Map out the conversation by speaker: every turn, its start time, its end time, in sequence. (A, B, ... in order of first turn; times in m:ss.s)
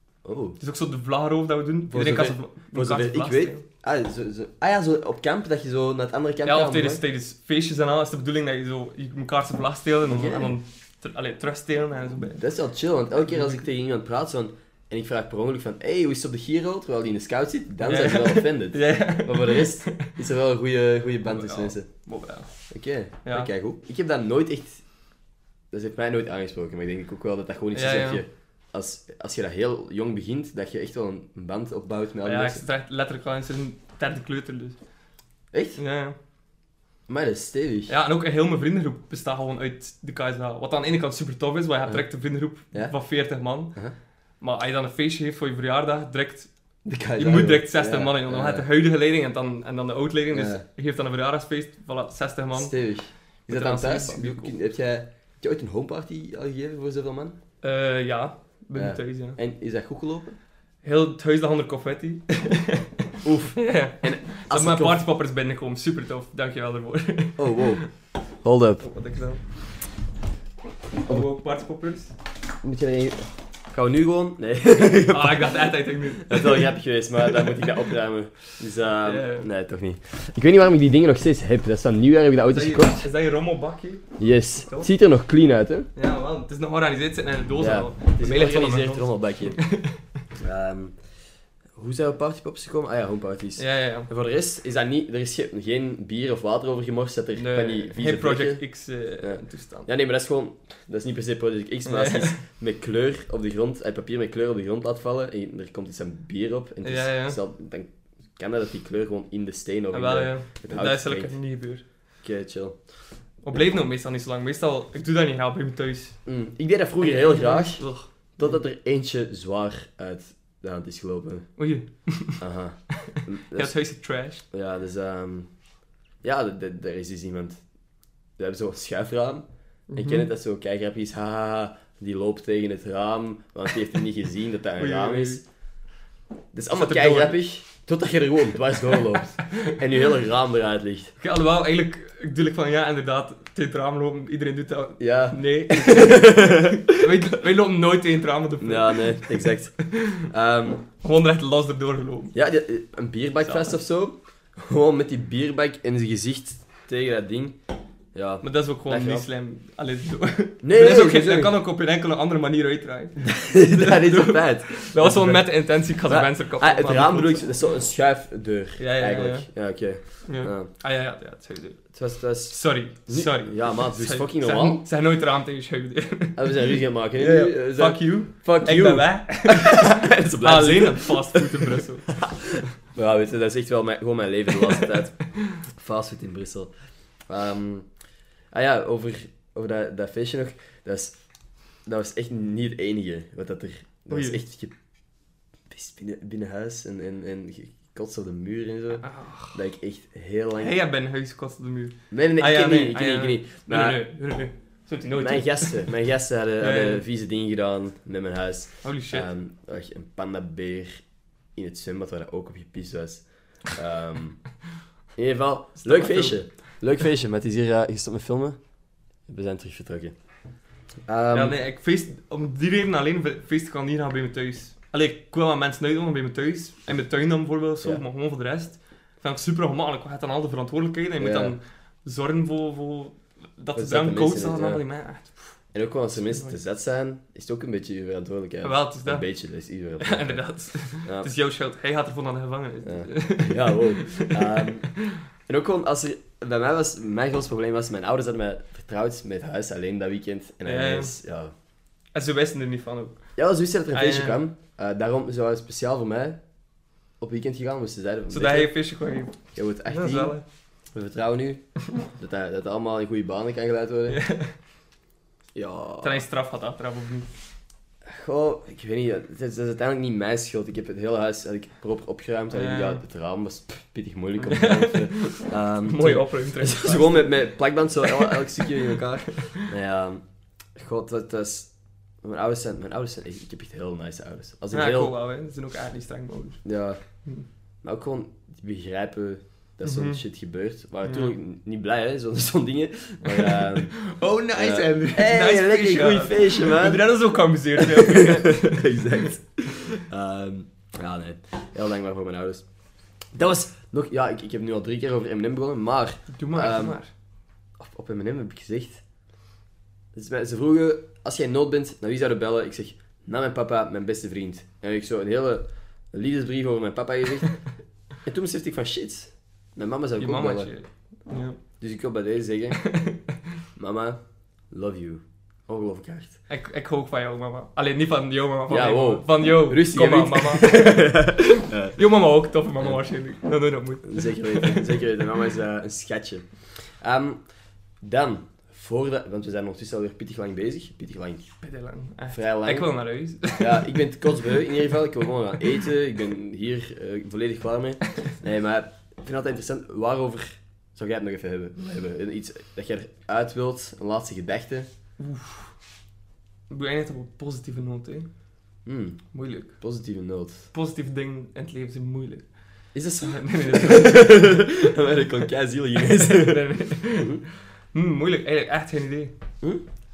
0:00.2-0:00.6 A
0:00.6-0:03.6 B
0:01.9-0:07.0 A
0:06.4-0:12.4 B
0:10.1-0:10.6 A
0:12.3-0:21.9 A
0:13.2-0:13.6 B
0:17.8-0:20.1 B
0:21.2-0:22.5 B
0:22.7-0:24.8 A
0:23.2-0:23.5 B
0:25.7-0:32.6 A
0:27.7-0:28.2 B
0:32.2-0:34.8 B
0:35.5-0:35.8 A
0:35.8-0:36.2 B
0:37.1-0:37.9 A
0:37.9-0:43.7 B
0:44.4-0:46.5 B
0:46.8-0:48.6 A
0:47.2-0:52.7 B
0:50.3-0:50.6 A
0:52.5-0:57.4 A
0:53.5-0:54.5 B
0:57.6-0:59.4 B
0:58.7-1:00.4 A
1:00.8-1:07.9 B
1:03.2-1:05.0 A
1:07.4-1:07.8 A
1:08.4-1:08.8 A
1:08.8-1:09.4 B
1:11.0-1:12.1 B
1:12.6-1:23.0 A
1:15.1-1:16.7 B
1:17.3-1:17.7 B
1:19.0-1:19.5 B
1:22.5-1:24.9 B
1:24.2-1:25.9 A
1:26.0-1:30.0 B
1:27.6-1:29.6 A
1:30.4-1:30.9 A
1:31.8-1:38.6 A
1:33.6-1:34.1 B
1:37.4-1:39.9 B
1:39.2-1:51.3 A
1:41.8-1:42.3 B
1:46.8-1:47.4 B
1:49.9-1:51.8 B
1:52.2-1:52.8 A
1:53.4-1:56.2 B
1:56.2-1:57.8 A
1:57.0-1:58.6 B
1:58.4-2:01.5 A
2:01.6-2:02.4 B
2:02.4-2:03.8 A
2:03.0-2:04.4 B
2:04.5-2:05.5 A
2:06.2-2:07.6 A
2:08.4-2:15.4 A
2:09.9-2:10.3 B
2:14.8-2:15.4 B
2:16.5-2:21.1 A
2:16.7-2:17.4 B
2:21.2-2:30.3 B
2:25.0-2:27.0 A
2:28.6-2:30.8 A
2:31.0-2:32.3 B
2:32.3-2:37.6 A
2:33.4-2:33.8 B
2:38.1-2:39.2 A
2:38.4-2:47.5 B
2:40.6-2:41.5 A
2:43.2-2:50.7 A
2:48.8-2:49.5 B
2:50.2-2:51.9 B
2:51.9-2:54.8 A
2:52.5-3:02.2 B
2:56.4-3:06.7 A
3:04.6-3:05.0 B
3:07.3-3:07.9 A
3:08.5-3:11.2 A
3:11.8-3:14.7 A
3:14.1-3:14.4 B
3:15.7-3:20.8 A
3:19.0-3:19.6 B
3:20.6-3:25.9 B
3:22.1-3:24.0 A
3:25.2-3:31.0 A
3:26.6-3:27.0 B
3:28.8-3:29.3 B
3:31.6-3:34.4 A
3:35.2-3:38.6 A
3:35.8-3:36.4 B
3:39.3-3:40.1 A
3:41.1-3:41.6 A
3:41.3-3:55.4 B
3:51.2-3:51.6 A
3:53.8-3:54.8 A
3:55.7-4:01.3 A
3:56.2-3:56.6 B
3:58.6-3:59.2 B
4:00.0-4:05.2 B
4:02.8-4:04.9 A
4:05.5-4:11.5 A
4:10.6-4:11.1 B
4:12.1-4:13.2 B
4:13.4-4:16.4 A
4:13.9-4:14.4 B
4:17.2-4:18.7 A
4:18.3-4:20.4 B
4:19.6-4:20.4 A
4:20.9-4:21.6 A
4:22.1-4:24.2 A
4:24.1-4:24.5 B
4:25.5-4:26.2 A
4:26.0-4:27.3 B
4:28.0-4:40.2 A
4:32.5-4:33.0 B
4:34.4-4:37.3 B
4:38.0-4:39.7 B
4:40.8-4:41.7 A
4:42.2-4:45.1 A
4:44.7-4:46.6 B
4:46.6-4:47.0 A
4:47.8-4:53.9 A
4:49.8-4:50.2 B
4:51.0-4:51.3 B
4:53.2-4:59.2 B
4:54.5-4:57.1 A
4:57.8-5:02.6 A
5:03.3-5:07.0 A
5:06.3-5:07.1 B
5:07.8-5:09.0 A
5:10.1-5:17.6 A
5:18.2-5:20.7 A
5:20.2-5:21.6 B
5:21.8-5:22.8 A
5:22.7-5:23.4 B
5:23.8-5:24.2 A
5:24.7-5:26.4 A
5:26.5-5:35.0 B
5:28.7-5:32.0 A
5:34.0-5:36.5 A
5:37.0-5:37.4 A
5:38.0-5:41.4 A
5:41.6-5:44.0 B
5:42.3-5:42.9 A
5:43.6-5:54.9 A
5:55.2-5:55.7 B
5:56.7-5:58.3 B
5:58.8-6:00.7 A
5:59.3-5:59.7 B
6:00.7-6:02.4 B
6:02.9-6:07.4 A
6:03.2-6:04.8 B
6:06.0-6:09.3 B